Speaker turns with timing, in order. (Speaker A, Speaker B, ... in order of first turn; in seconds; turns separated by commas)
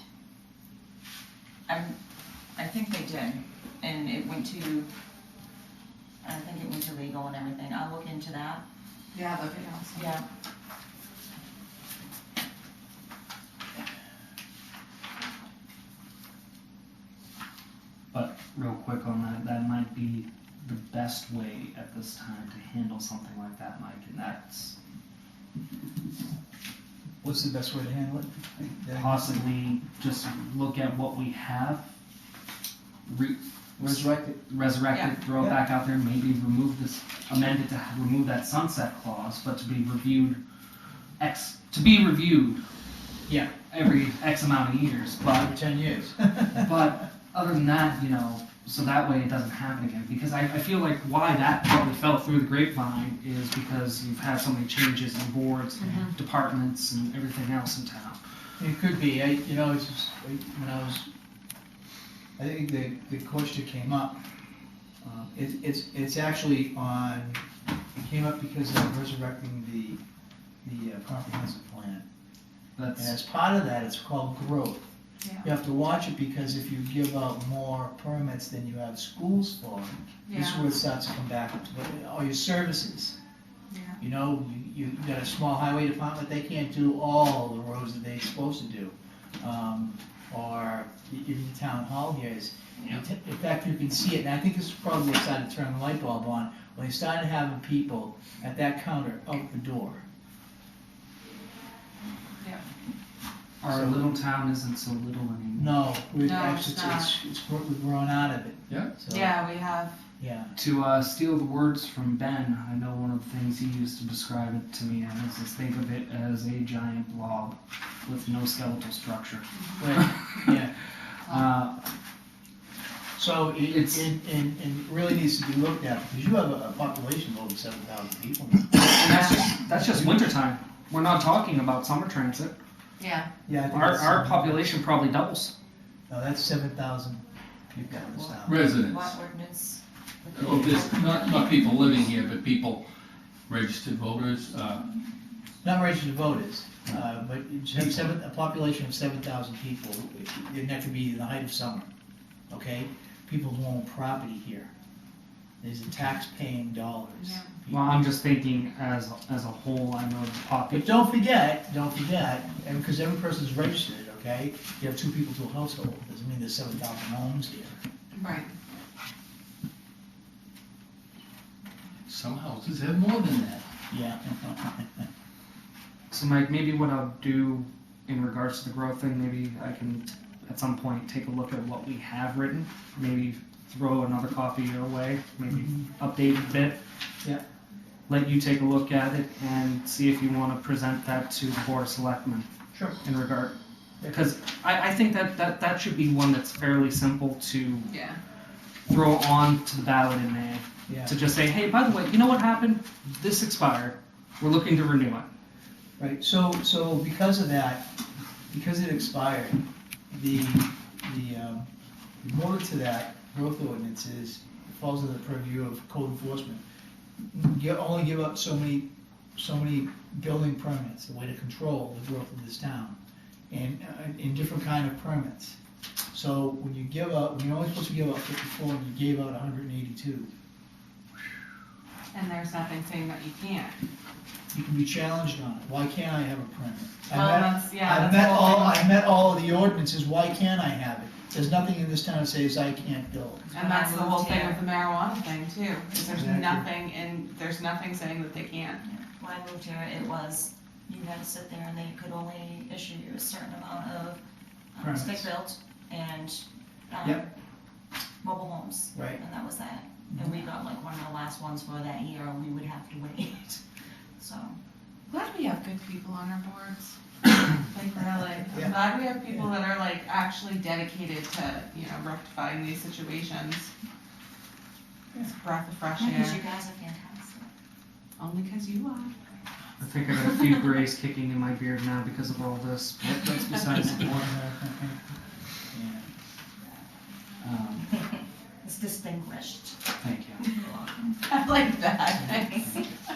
Speaker A: 1.7-2.0, Speaker A: 2.5-4.9, Speaker A: 6.2-8.6, Speaker B: 9.1-10.1, Speaker A: 9.9-10.2, Speaker C: 18.1-24.8, Speaker D: 27.2-29.4, Speaker C: 28.9-31.9, Speaker C: 33.1-40.4, Speaker D: 33.8-34.4, Speaker B: 34.9-35.2, Speaker D: 35.4-35.6, Speaker C: 41.2-42.6, Speaker D: 43.3-43.5, Speaker C: 43.7-45.5, Speaker D: 45.3-46.9, Speaker C: 46.5-58.2, Speaker D: 58.6-61.1, Speaker D: 62.4-64.2, Speaker D: 65.0-67.4, Speaker D: 68.0-70.0, Speaker D: 70.6-72.0, Speaker C: 72.8-73.1, Speaker D: 73.0-74.8, Speaker B: 75.2-75.5, Speaker D: 75.4-83.2, Speaker B: 80.3-80.6, Speaker B: 83.7-84.0, Speaker D: 84.0-100.0, Speaker C: 103.6-105.7, Speaker D: 103.7-104.1, Speaker D: 105.6-109.4, Speaker B: 106.2-107.2, Speaker B: 109.1-110.0, Speaker D: 110.2-110.5, Speaker C: 110.5-120.1, Speaker B: 119.6-119.8, Speaker D: 119.8-120.7, Speaker C: 121.2-121.8, Speaker D: 123.2-130.3, Speaker C: 123.7-124.1, Speaker C: 128.7-132.6, Speaker B: 133.0-133.3, Speaker D: 133.5-134.6, Speaker C: 133.7-135.5, Speaker D: 136.1-138.7, Speaker A: 137.9-142.0, Speaker E: 138.4-139.1, Speaker E: 140.3-142.8, Speaker E: 143.5-144.8, Speaker D: 145.6-151.9, Speaker E: 147.7-148.1, Speaker D: 152.5-154.7, Speaker D: 155.6-158.2, Speaker B: 157.2-157.5, Speaker C: 157.7-161.0, Speaker D: 160.7-167.8, Speaker B: 168.1-168.6, Speaker E: 172.1-173.7, Speaker D: 173.9-175.0, Speaker C: 176.1-186.8, Speaker C: 188.1-192.5, Speaker D: 192.7-193.0, Speaker C: 193.0-197.9, Speaker B: 197.9-198.2, Speaker C: 198.9-205.3, Speaker D: 200.9-201.2, Speaker D: 206.0-207.9, Speaker D: 208.5-209.6, Speaker D: 210.1-211.7, Speaker D: 212.2-216.6, Speaker D: 217.3-223.0, Speaker D: 223.5-225.6, Speaker D: 226.1-230.3, Speaker B: 232.1-233.8, Speaker D: 234.5-243.5, Speaker B: 237.1-238.8, Speaker A: 243.5-244.6, Speaker B: 243.5-248.8, Speaker D: 246.1-246.7, Speaker A: 248.8-254.2, Speaker A: 254.8-257.3, Speaker D: 254.8-255.3, Speaker A: 258.2-263.6, Speaker D: 258.9-259.2, Speaker A: 264.2-264.6, Speaker B: 265.1-273.7, Speaker D: 268.5-268.7, Speaker B: 275.2-276.4, Speaker A: 276.0-277.5, Speaker B: 278.2-279.1, Speaker C: 279.8-284.4, Speaker D: 284.0-285.0, Speaker D: 285.7-286.1, Speaker C: 287.4-288.0, Speaker A: 287.9-289.8, Speaker C: 290.0-290.4, Speaker A: 290.4-292.6, Speaker B: 291.3-292.9